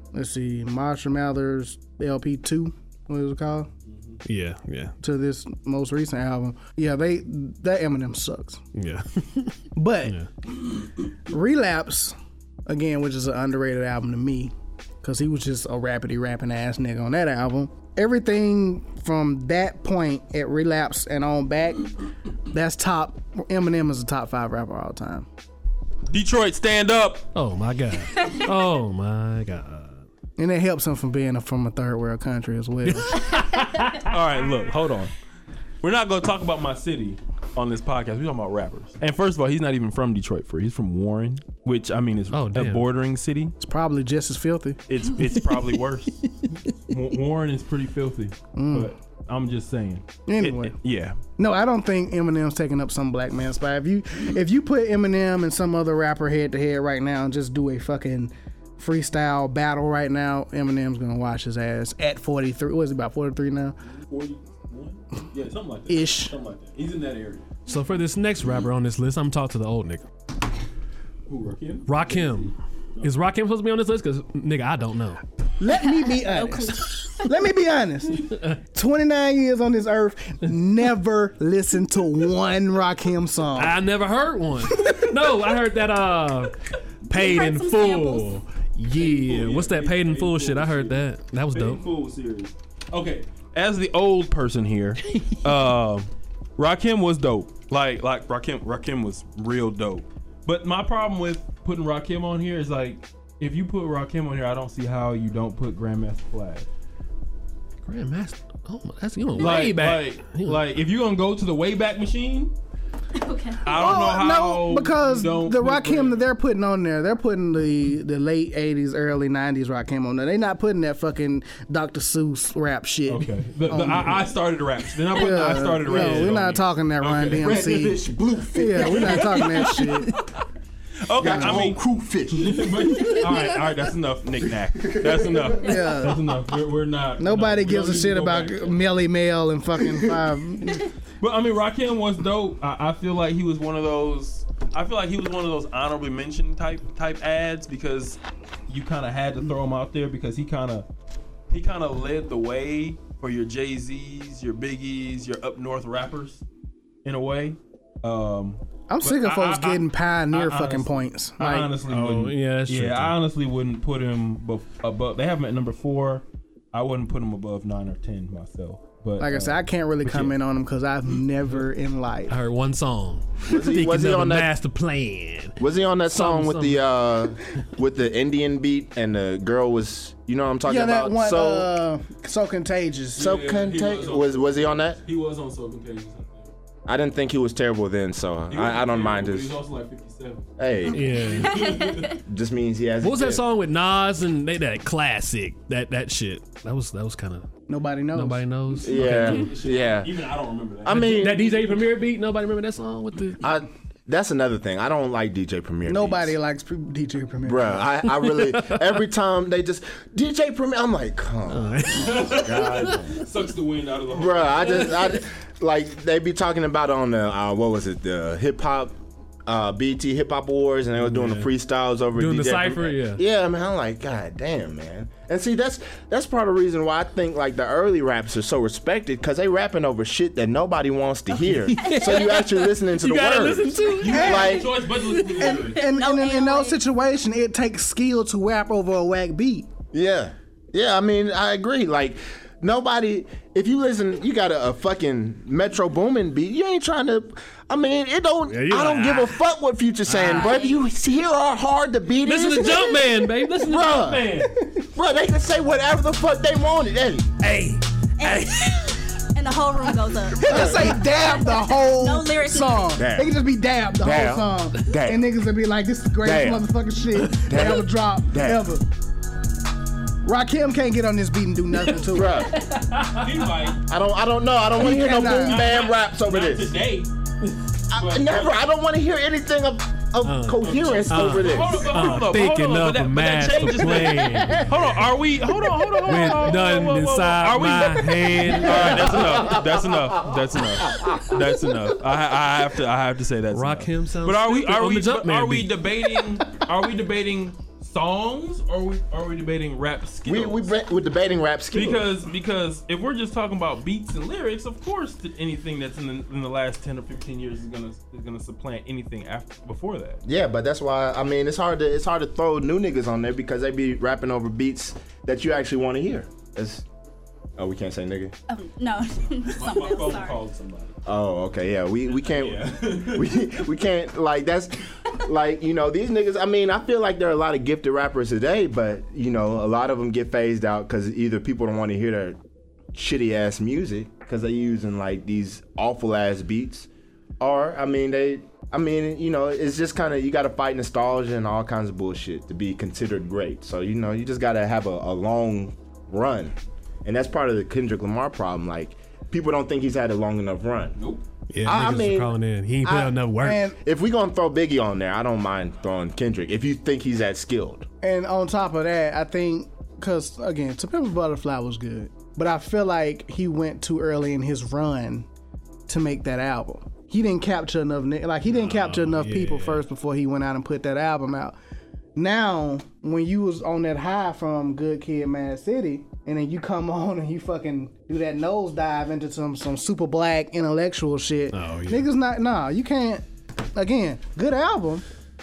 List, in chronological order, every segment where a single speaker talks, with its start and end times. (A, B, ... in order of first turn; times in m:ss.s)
0:00.1-0:03.7 A
0:03.8-0:04.2 B
0:04.2-0:04.9 C
0:05.0-0:08.6 A
0:08.7-0:10.3 C
0:09.7-0:10.2 A
0:11.2-0:12.1 A
0:12.7-0:21.9 A
0:22.5-0:25.3 A
0:26.1-0:27.3 B
0:27.3-0:30.0 C
0:30.4-0:33.2 A
0:32.9-0:34.1 C
0:34.0-0:35.1 B
0:35.8-0:43.5 B
0:42.3-0:42.9 C
0:43.6-0:44.8 A
0:44.9-0:46.2 B
0:46.9-0:51.2 B
0:48.5-0:48.9 A
0:50.2-0:50.8 A
0:51.4-1:03.8 A
1:03.9-1:07.5 B
1:05.9-1:06.3 A
1:07.6-1:10.0 C
1:11.3-1:13.1 B
1:11.8-1:15.2 C
1:15.6-1:23.8 A
1:15.9-1:17.3 D
1:18.3-1:18.6 C
1:23.6-1:26.5 C
1:27.1-1:31.8 C
1:27.1-1:28.3 D
1:28.9-1:46.7 B
1:35.1-1:35.4 C
1:47.8-1:50.6 C
1:49.3-1:52.5 B
1:53.1-1:53.6 D
1:53.6-1:56.3 B
1:53.7-2:04.3 A
2:03.1-2:08.0 B
2:05.1-2:08.0 A
2:07.4-2:09.2 E
2:08.5-2:10.2 A
2:08.8-2:10.2 B
2:11.0-2:18.8 B
2:11.2-2:13.2 E
2:14.8-2:15.6 E
2:15.6-2:16.2 A
2:17.2-2:20.8 A
2:21.2-2:30.9 B
2:31.5-2:36.4 B
2:37.0-2:50.3 B
2:38.9-2:41.7 A
2:41.9-2:43.1 C
2:49.2-2:52.4 A
2:52.3-2:55.6 C
2:53.4-2:54.5 E
2:55.6-3:01.7 E
2:56.1-2:56.8 C
3:00.6-3:03.3 A
3:03.2-3:05.0 E
3:03.2-3:06.5 B
3:06.9-3:09.6 E
3:08.5-3:12.2 B
3:10.6-3:11.6 E
3:10.9-3:11.8 C
3:11.4-3:12.1 D
3:12.1-3:13.4 E
3:13.0-3:17.5 C
3:17.7-3:18.4 A
3:18.1-3:19.5 C
3:18.8-3:20.2 E
3:18.8-3:21.8 B
3:20.8-3:21.4 E
3:20.9-3:23.4 C
3:23.4-3:26.4 E
3:25.8-3:27.8 A
3:27.4-3:33.2 E
3:28.2-3:29.0 C
3:31.5-3:33.1 C
3:32.0-3:35.1 B
3:34.1-3:54.7 E
3:41.0-3:41.5 C
3:42.1-3:43.2 C
3:51.3-3:55.5 C
3:51.8-3:52.4 D
3:54.0-3:55.8 B
3:54.1-3:54.6 A
3:55.4-3:59.7 A
3:55.7-3:56.8 D
3:59.9-4:17.3 E
4:08.4-4:09.4 C
4:10.0-4:10.6 C
4:10.3-4:10.8 D
4:12.2-4:14.5 C
4:14.4-4:14.8 A
4:17.4-4:19.2 C
4:18.2-4:23.0 D
4:20.4-4:28.8 A
4:20.5-4:20.9 E
4:23.0-4:23.3 E
4:24.0-4:25.2 E
4:26.2-4:26.6 E
4:27.4-4:28.6 E
4:30.2-4:32.5 A
4:32.0-4:32.6 E
4:32.5-4:33.6 C
4:33.2-4:33.8 B
4:33.8-4:36.8 E
4:34.8-4:35.6 A
4:34.8-4:37.1 B
4:37.9-4:42.2 E
4:37.9-4:38.6 B
4:40.2-4:44.9 C
4:40.6-5:00.7 B
4:46.0-4:49.5 C
4:48.6-4:49.8 E
4:50.8-4:51.4 E
4:53.5-4:56.1 C
5:00.2-5:02.1 E
5:01.7-5:10.2 B
5:10.2-5:16.8 E
5:17.6-5:18.3 E
5:18.5-5:20.4 D
5:19.6-5:21.0 B
5:21.0-5:32.4 E
5:22.1-5:23.4 B
5:32.9-5:36.9 E
5:37.4-5:51.0 E
5:51.0-5:51.2 B
5:51.5-5:53.7 C
5:51.6-5:52.4 E
5:52.9-5:53.8 A
5:53.7-5:57.8 E
5:58.0-6:05.3 A
6:05.9-6:11.6 A
6:08.5-6:09.8 C
6:12.2-6:23.2 A
6:21.5-6:22.0 C
6:23.7-6:25.0 A